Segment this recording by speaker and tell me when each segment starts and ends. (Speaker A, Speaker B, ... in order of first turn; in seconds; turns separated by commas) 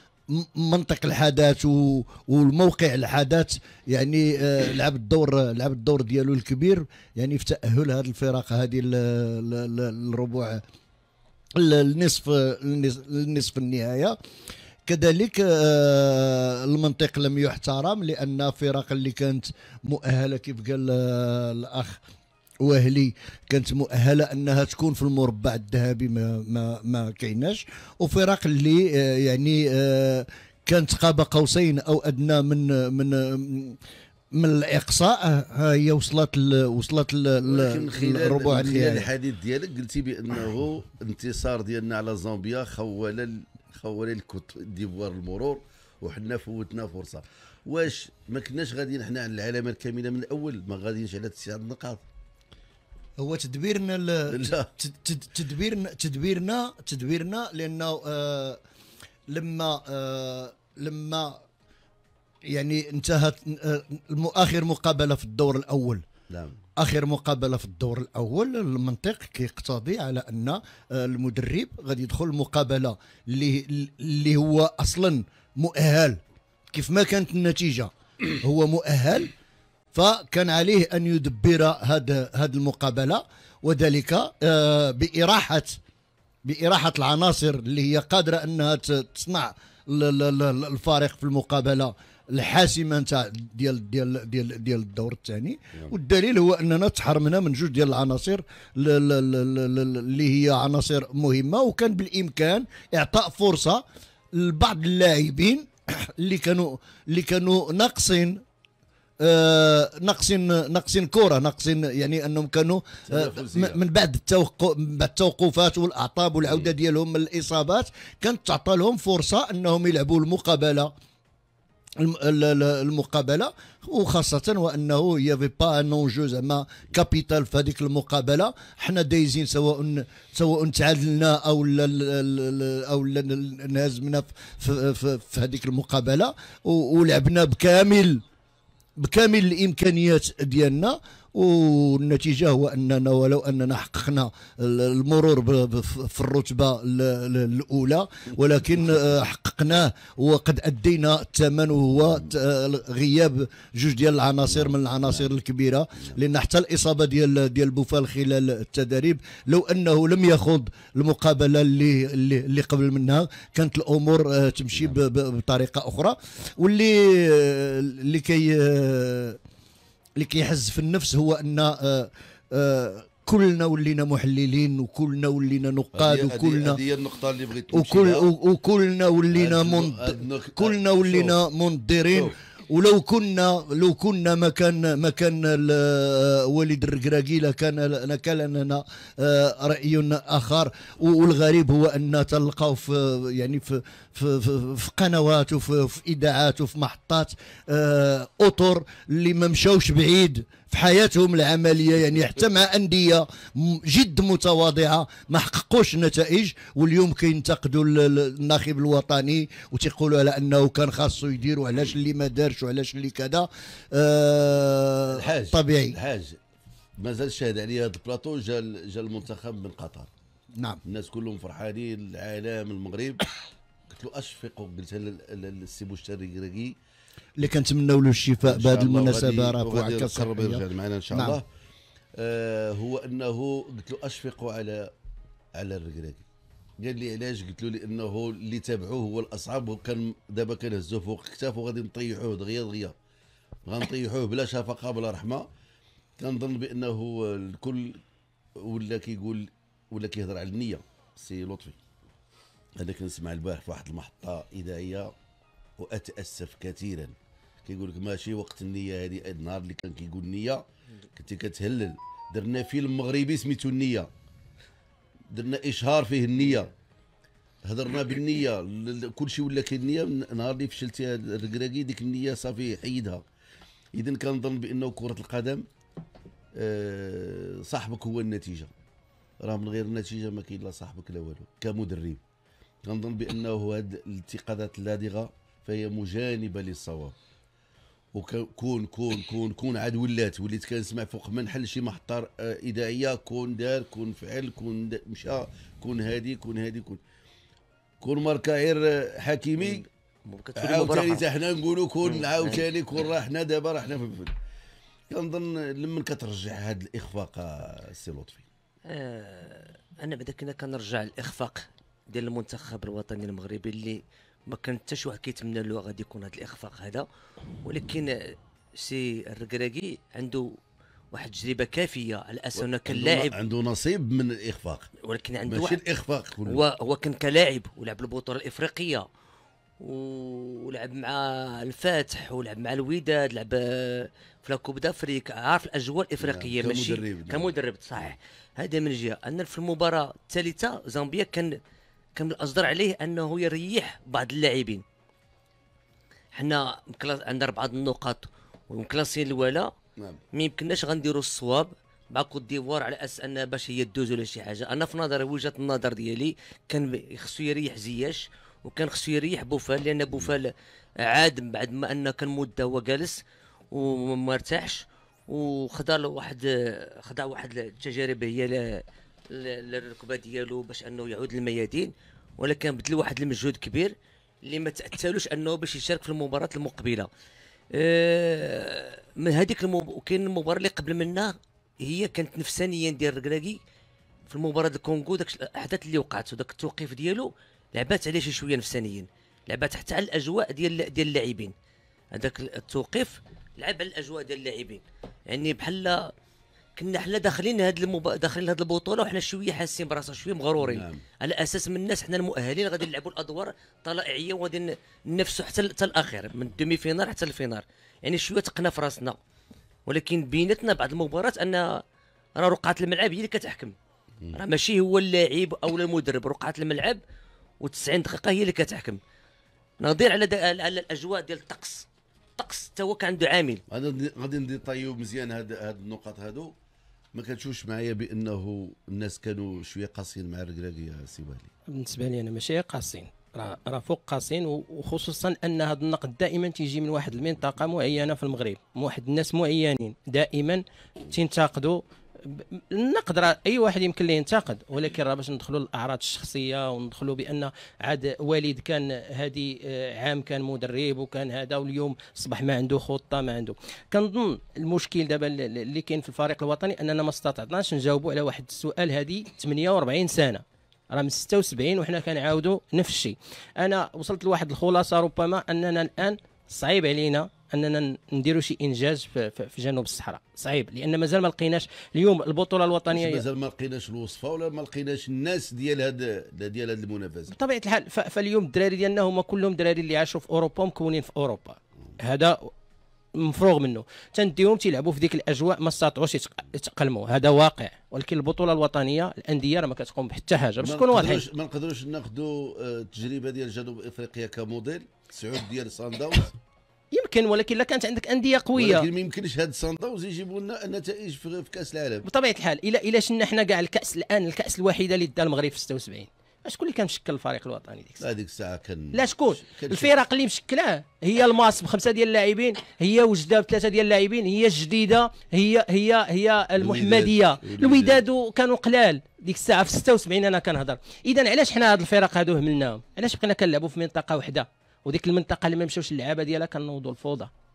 Speaker A: 0.3-10.6, Speaker A: 11.6-14.2, Speaker A: 14.8-22.0, Speaker A: 22.6-33.8, Speaker A: 34.3-39.1, Speaker B: 37.5-52.0, Speaker A: 53.2-58.6, Speaker B: 54.3-54.7, Speaker A: 59.3-61.4, Speaker A: 62.5-66.0, Speaker B: 66.3-66.6, Speaker A: 66.8-76.2, Speaker A: 76.7-79.3, Speaker A: 79.9-85.8, Speaker A: 86.4-108.4, Speaker A: 109.2-120.9, Speaker B: 113.1-113.8, Speaker A: 122.0-138.2, Speaker A: 139.0-169.4, Speaker B: 154.5-155.3, Speaker A: 170.2-176.8, Speaker B: 175.9-178.2, Speaker A: 177.7-216.0, Speaker B: 179.3-181.3, Speaker B: 215.1-216.4, Speaker B: 217.0-220.1, Speaker B: 220.8-223.2, Speaker B: 223.9-226.7, Speaker A: 227.4-231.4, Speaker B: 228.4-231.4, Speaker B: 232.2-234.9, Speaker B: 235.6-236.2, Speaker B: 236.8-242.9, Speaker B: 243.7-245.5, Speaker B: 246.2-248.0, Speaker B: 248.6-251.8, Speaker B: 252.8-255.1, Speaker B: 255.8-257.1, Speaker B: 257.6-260.6, Speaker B: 261.1-264.1, Speaker B: 265.3-266.7, Speaker B: 267.6-273.2, Speaker B: 273.9-275.6, Speaker B: 276.6-278.7, Speaker B: 279.4-282.2, Speaker B: 282.8-287.1, Speaker B: 288.1-297.0, Speaker B: 298.0-299.9, Speaker C: 299.6-301.2, Speaker B: 300.6-304.3, Speaker C: 302.0-302.6, Speaker B: 305.1-308.4, Speaker C: 308.9-317.1, Speaker C: 317.6-320.6, Speaker C: 321.1-323.3, Speaker B: 322.6-324.9, Speaker C: 325.0-325.8, Speaker B: 325.5-326.6, Speaker C: 326.4-329.1, Speaker C: 329.8-341.5, Speaker B: 336.2-338.1, Speaker C: 342.1-344.8, Speaker C: 346.4-349.7, Speaker C: 350.3-360.5, Speaker B: 360.1-360.4, Speaker C: 361.0-363.2, Speaker C: 363.7-373.9, Speaker C: 374.5-377.1, Speaker C: 377.7-383.6, Speaker C: 384.3-391.5, Speaker C: 392.1-396.1, Speaker C: 396.8-409.2, Speaker B: 400.6-401.0, Speaker C: 409.9-411.8, Speaker C: 412.4-413.7, Speaker C: 414.3-417.0, Speaker C: 417.6-419.0, Speaker C: 419.8-421.9, Speaker C: 422.4-423.6, Speaker B: 423.7-426.5, Speaker B: 427.1-431.5, Speaker D: 431.7-460.4, Speaker D: 460.9-473.2, Speaker B: 472.9-477.3, Speaker D: 477.3-482.5, Speaker D: 483.2-491.2, Speaker B: 490.6-496.3, Speaker D: 496.9-498.8, Speaker B: 498.6-502.1, Speaker D: 502.0-508.0, Speaker B: 508.0-509.9, Speaker D: 508.9-527.3, Speaker B: 516.6-518.0